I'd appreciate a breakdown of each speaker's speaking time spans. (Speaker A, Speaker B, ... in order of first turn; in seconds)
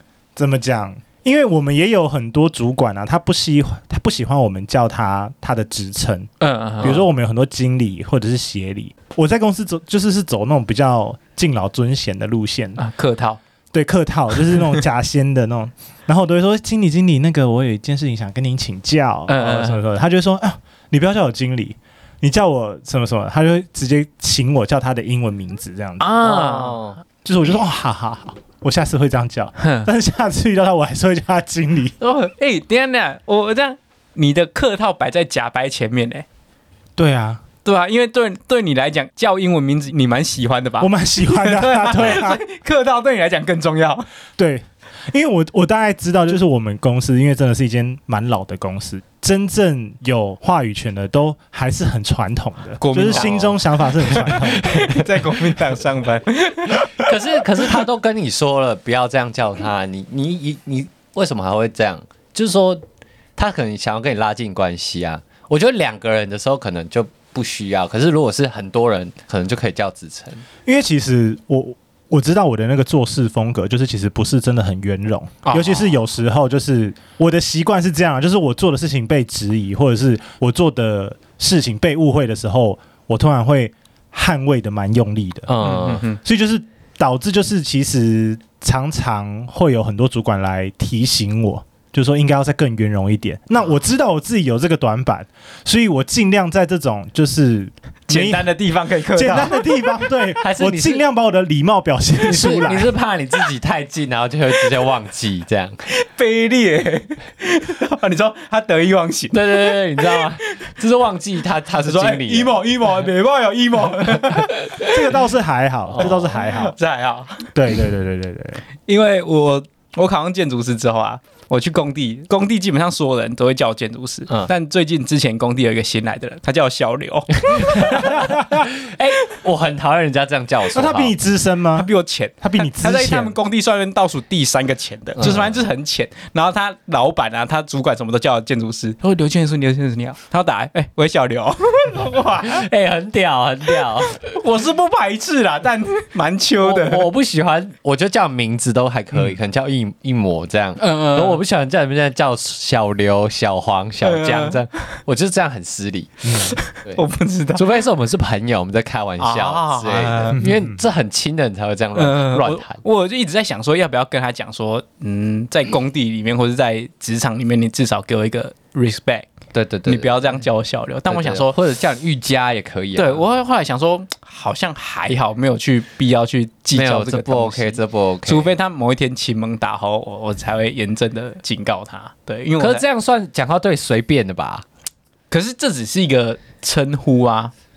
Speaker A: 0.4-6.3, 6.8-12.8, 13.7-26.1, 27.2-31.9, 37.0-37.4, 40.8-42.4, 44.4-54.9, 70.7-85.5, 86.1-98.5, 99.1-102.9, 114.8-116.8, 117.5-118.6, 130.7-131.9, 132.4-133.4, 156.2-156.6, 160.3-160.8
Speaker B: 6.4-7.1, 12.8-13.4, 19.3-19.8, 26.0-26.8, 29.6-29.9, 32.0-36.2, 37.6-44.1, 52.8-53.5, 54.0-57.1, 75.4-75.9, 85.6-86.2, 98.1-99.8, 105.9-110.7, 111.8-115.0, 116.0-117.5, 118.9-128.4, 131.8-142.7, 144.1-147.1, 150.8-151.4, 154.0-155.0, 156.4-157.7, 159.2-160.4, 162.0-169.3, 169.9-171.5, 173.0-182.8, 185.3-187.5
Speaker C: 26.2-27.0, 53.1-53.6, 54.4-54.8, 57.0-62.8, 63.4-70.5, 85.5-86.0, 100.4-101.0, 102.2-105.8, 109.3-112.5, 115.9-116.3, 127.5-131.2, 135.2-135.6, 142.4-144.2, 146.6-157.0, 157.6-162.8, 169.5-170.4, 171.1-173.2, 176.7-178.5, 182.6-184.7